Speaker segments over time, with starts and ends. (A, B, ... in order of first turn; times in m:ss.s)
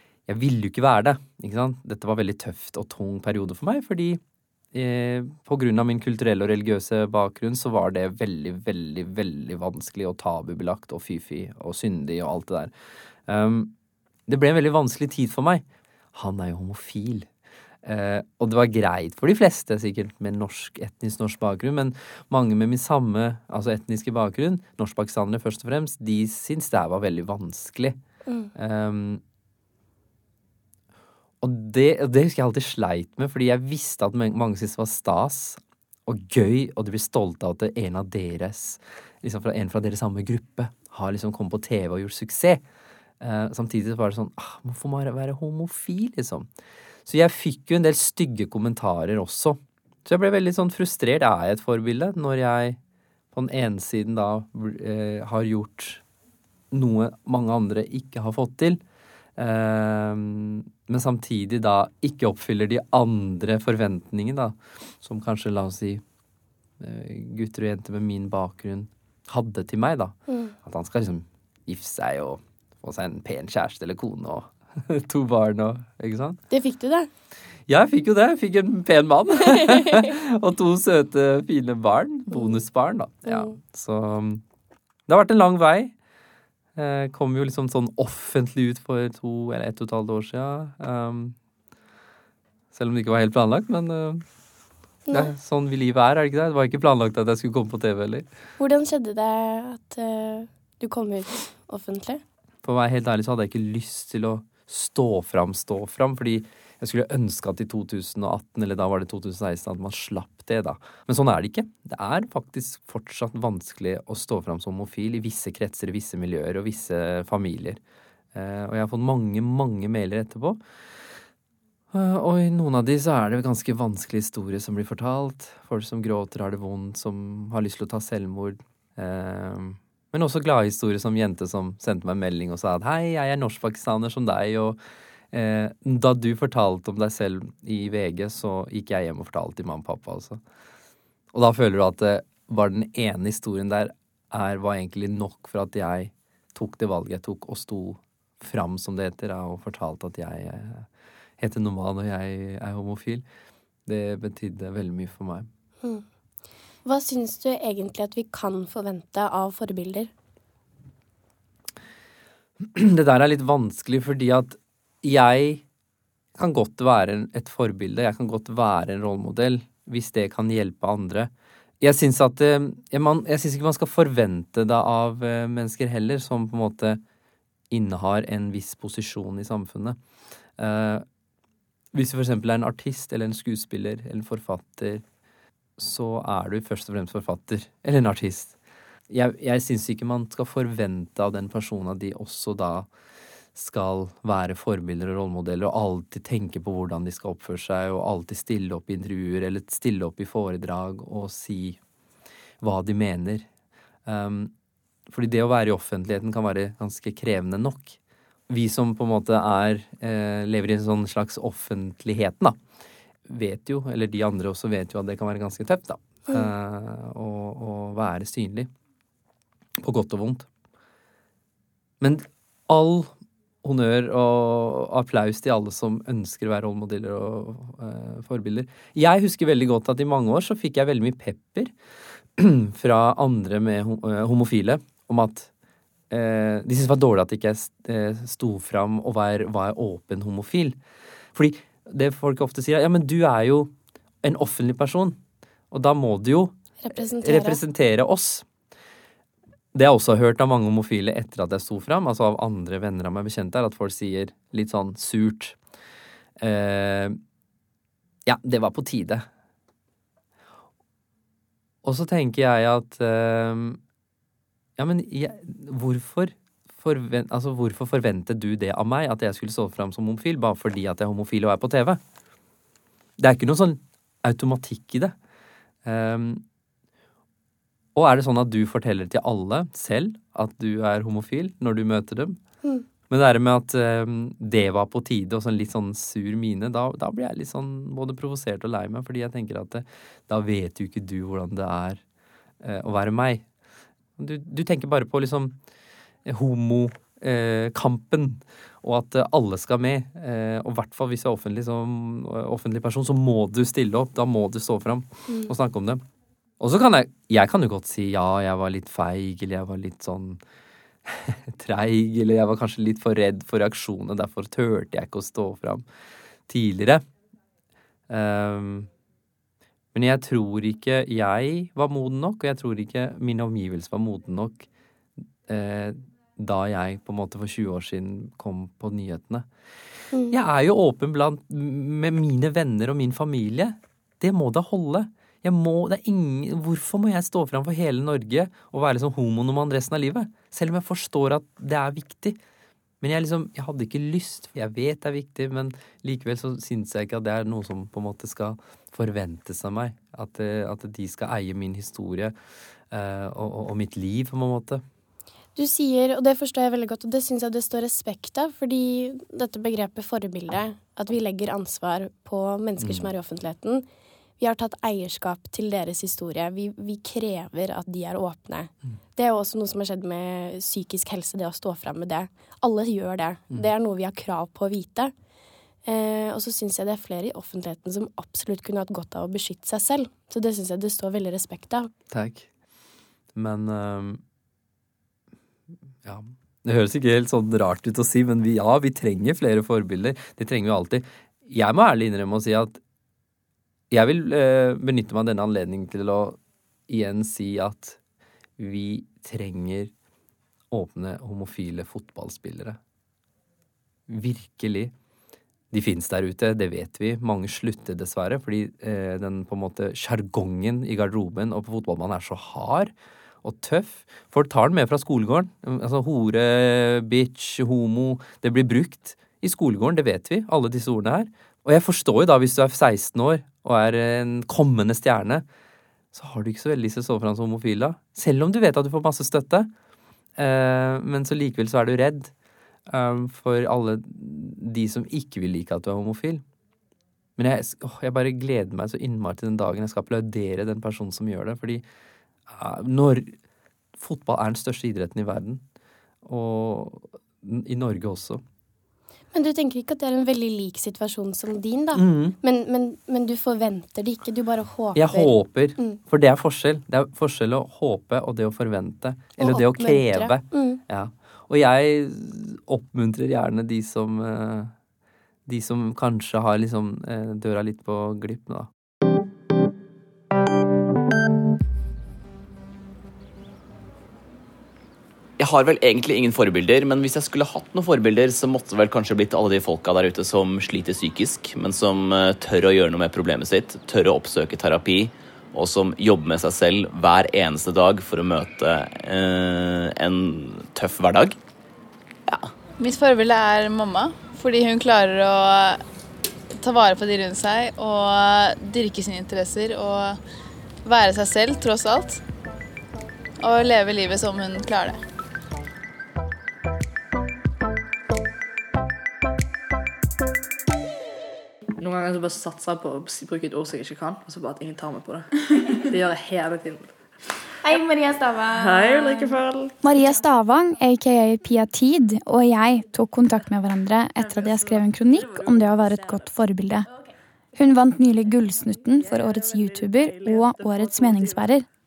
0:00.3-0:04.2 A
0:04.7-0:12.7 A
0:13.3-0:13.7 A
0:14.3-0:17.3 A
0:17.8-0:28.0 A
0:28.5-0:29.2 A
0:31.4-0:42.6 A
0:43.2-0:46.5 A
0:47.0-0:52.8 A
0:53.3-0:56.0 A
0:56.7-0:58.8 A
0:59.4-1:06.0 A
1:06.8-1:16.4 A
1:10.3-1:10.5 B
1:16.5-1:17.1 B
1:17.7-1:24.4 A
1:23.2-1:23.5 B
1:25.1-1:25.9 A
1:26.7-1:31.4 A
1:32.7-1:34.2 A
1:35.1-1:38.2 A
1:38.6-1:42.2 B
1:42.6-1:57.8 A
1:58.3-2:00.6 A
2:01.9-2:14.8 A
2:15.3-2:20.4 A
2:21.3-2:30.9 A
2:31.4-2:33.2 A
2:33.8-2:35.5 A
2:36.8-2:40.1 B
2:42.6-2:45.6 A
2:46.4-2:57.0 A
2:57.7-3:00.0 A
3:00.6-3:01.0 A
3:01.9-3:05.0 A
3:05.8-3:08.6 A
3:09.1-3:12.9 A
3:13.5-3:21.8 A
3:22.6-3:23.4 A
3:24.0-3:24.5 A
3:25.1-3:28.0 A
3:28.5-3:32.6 A
3:33.2-3:38.7 A
3:39.8-3:40.5 A
3:42.0-3:43.1 A
3:43.6-3:51.7 A
3:52.4-3:55.5 A
3:56.1-4:00.8 A
4:01.3-4:05.2 A
4:05.7-4:06.5 A
4:06.8-4:07.6 B
4:07.2-4:08.4 A
4:09.7-4:15.6 A
4:16.4-4:17.2 A
4:18.2-4:19.3 A
4:21.8-4:23.8 A
4:24.8-4:32.0 A
4:33.2-4:35.1 A
4:35.8-4:36.4 A
4:37.9-4:42.4 A
4:43.1-4:52.0 A
4:52.6-4:53.4 A
4:54.2-4:55.5 A
4:56.2-5:06.0 A
5:06.6-5:10.4 A
5:11.0-5:15.8 A
5:16.5-5:17.0 A
5:18.1-5:18.9 A
5:19.9-5:24.6 A
5:25.5-5:29.4 A
5:30.3-5:42.4 A
5:43.0-5:52.3 A
5:52.9-5:54.8 A
5:55.6-6:03.9 B
6:02.8-6:03.1 A
6:04.4-6:15.1 B
6:15.8-6:21.9 B
6:22.1-6:22.5 A
6:23.3-6:24.2 A
6:26.0-6:32.8 A
6:33.9-6:38.0 A
6:38.6-6:39.9 A
6:40.7-6:42.8 A
6:44.1-6:44.9 A
6:45.7-7:05.4 A
7:06.1-7:09.7 A
7:10.4-7:12.3 A
7:12.9-7:16.4 A
7:17.4-7:21.8 A
7:22.5-7:23.4 A
7:24.0-7:25.6 A
7:26.2-7:28.4 A
7:29.3-7:36.0 B
7:31.9-7:32.4 A
7:34.9-7:44.7 A
7:39.4-7:40.8 B
7:45.4-7:48.7 A
7:55.4-8:11.4 C
8:12.8-8:15.8 D
8:16.5-8:20.2 D
8:20.8-8:22.2 D
8:23.4-8:25.0 D
8:31.8-8:36.9 E
8:37.6-8:46.9 F
8:38.5-8:39.8 E
8:44.2-8:46.3 E
8:47.5-8:51.7 F
8:48.7-8:51.5 E